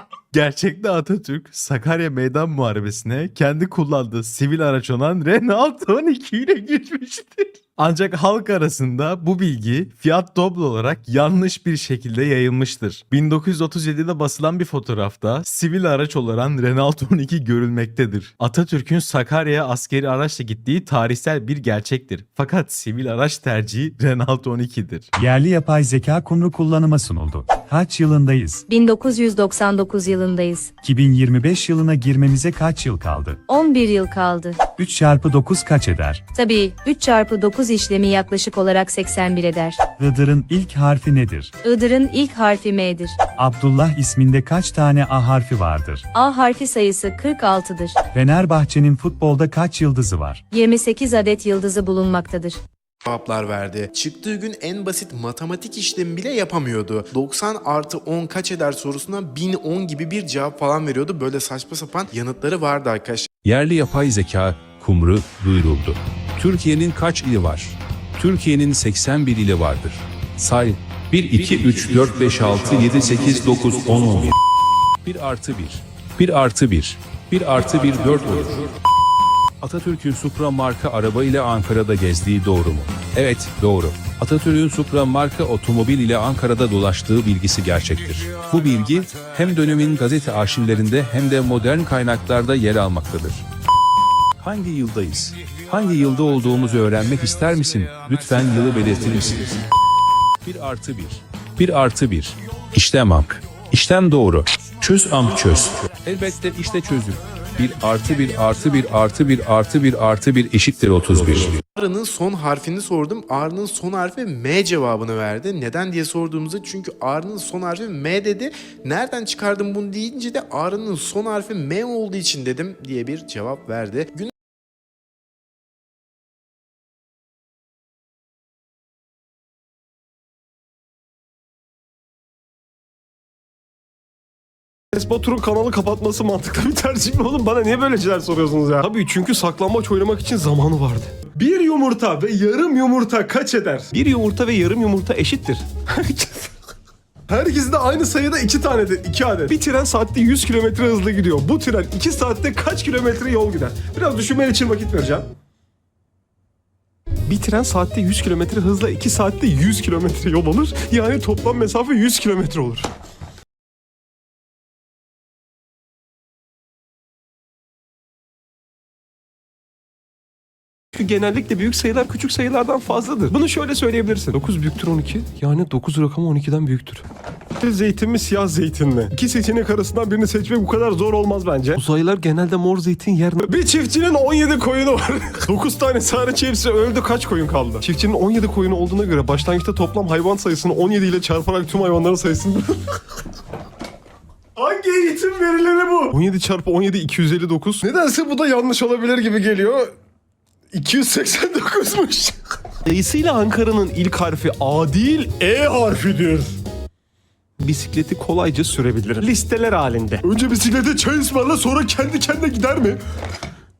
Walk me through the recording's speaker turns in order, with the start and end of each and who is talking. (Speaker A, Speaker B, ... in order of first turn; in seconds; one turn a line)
Speaker A: 0.3-25.1
Speaker B: 25.2-28.6
Speaker C: 28.7-30.7
Speaker B: 30.8-33.4
Speaker C: 33.5-34.6
Speaker B: 34.8-36.2
Speaker C: 36.3-39.8
Speaker B: 40.0-41.5
Speaker C: 41.6-43.1
Speaker B: 43.4-46.1
Speaker C: 46.1-48.0
Speaker B: 48.1-50.4
Speaker C: 50.5-52.6
Speaker D: 53.0-63.3
Speaker E: 63.4-74.3
Speaker E: 75.0-78.7
Speaker E: 79.6-93.4
Speaker E: 94.4-99.6
Speaker E: 100.4-111.6
Speaker D: 111.8-124.3
Speaker F: 134.9-146.5
Speaker F: 147.3-155.3
Speaker F: 157.2-162.9
Speaker F: 170.9-193.0
Speaker F: 194.6-199.9
Speaker F: 200.7-206.6
Speaker F: 207.6-213.0